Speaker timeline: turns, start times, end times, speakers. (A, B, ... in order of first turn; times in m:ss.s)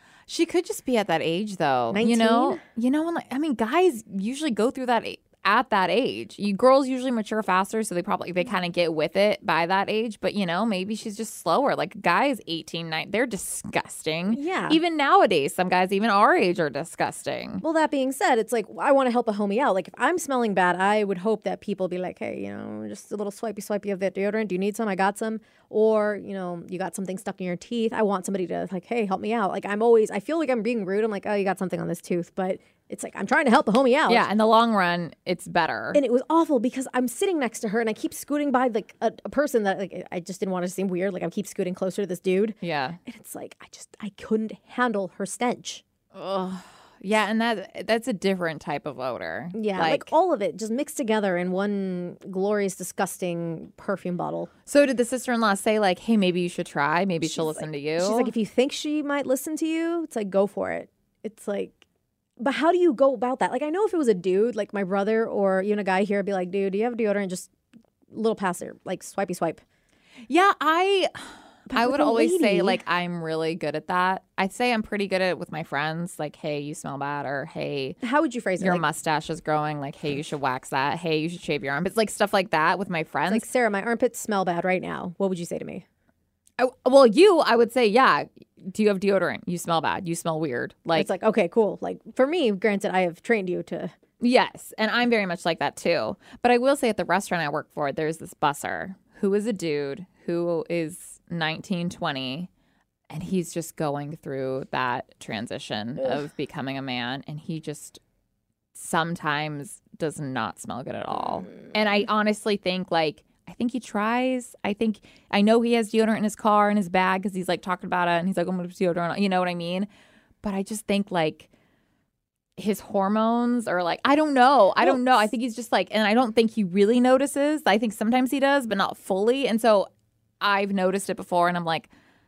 0:00.3-0:17.6 A
0:01.9-0:02.6 B
0:14.3-0:14.8 B
0:17.6-0:34.3 B
0:34.1-0:36.0 A
0:35.9-0:45.8 B
0:42.6-0:43.0 A
0:46.1-0:50.1 A
0:49.5-0:54.5 B
0:54.7-0:58.3 A
0:57.2-1:01.8 B
1:02.4-1:07.5 B
1:08.1-1:09.6 B
1:10.3-1:18.0 A
1:11.7-1:12.8 B
1:18.0-1:18.8 B
1:18.6-1:23.5 A
1:23.3-1:25.8 B
1:26.6-1:31.1 A
1:31.0-1:33.9 B
1:34.2-1:42.5 A
1:43.1-1:48.0 A
1:48.7-1:59.9 A
2:00.4-2:01.5 A
2:02.6-2:09.9 A
2:04.8-2:05.1 B
2:10.4-2:11.9 A